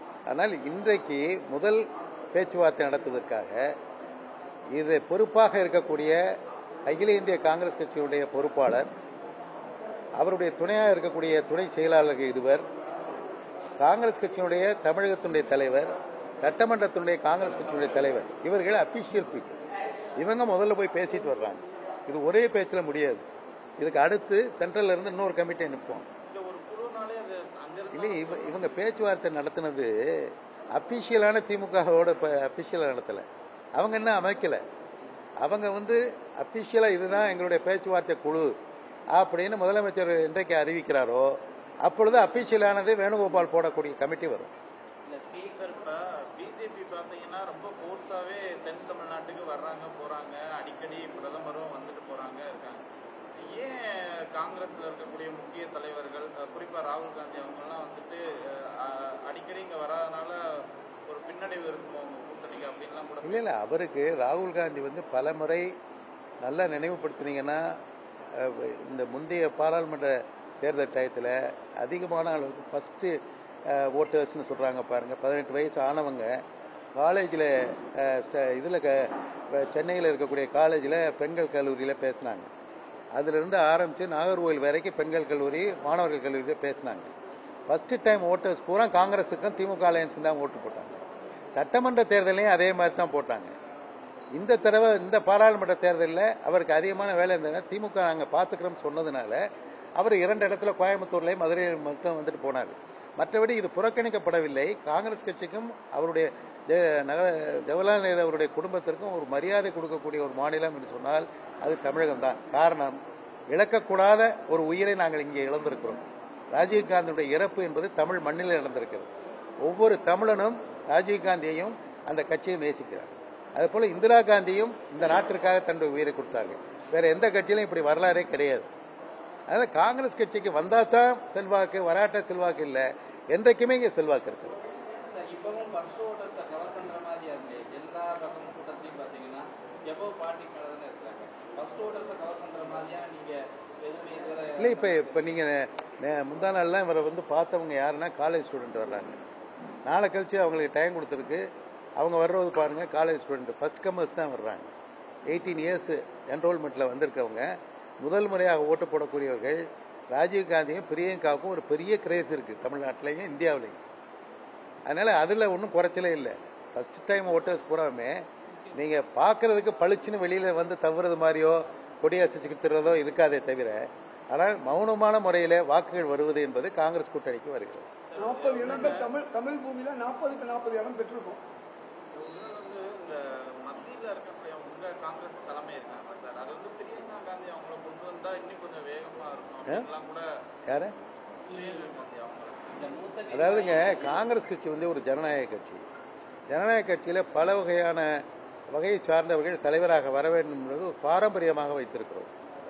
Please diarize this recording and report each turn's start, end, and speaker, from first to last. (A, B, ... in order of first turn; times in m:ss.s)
0:00.3-0:03.7 A
0:04.7-0:06.2 A
0:06.9-0:08.9 A
0:10.2-0:12.7 A
0:13.8-0:19.6 A
0:20.2-0:23.2 A
0:23.8-0:26.1 A
0:26.3-0:28.7 B
0:27.9-0:33.2 A
0:33.8-0:34.6 A
0:35.4-0:38.5 A
0:39.1-0:44.5 A
0:45.1-0:52.8 B
0:53.4-1:03.5 B
1:03.2-1:05.7 A
1:06.4-1:07.8 A
1:08.3-1:13.2 A
1:13.7-1:16.4 A
1:17.0-1:22.5 A
1:23.1-1:27.1 A
1:27.7-1:31.0 A
1:31.5-1:33.6 A
1:34.3-1:39.4 A
1:40.0-1:53.0 A
1:53.5-1:59.1 A
1:59.6-2:08.7 A
2:09.5-2:14.6 A
2:15.1-2:25.3 C
2:24.6-2:29.2 A
2:29.9-2:31.5 A
2:32.0-2:34.7 A
2:35.3-2:37.5 A
2:38.0-2:43.8 A
2:44.9-2:57.9 A
2:58.1-2:59.1 B
2:58.2-3:01.4 D
3:02.1-3:10.3 B
3:10.7-3:10.9 A
3:11.5-3:12.7 B
3:12.7-3:14.2 C
3:13.3-3:15.8 A
3:16.5-3:22.3 A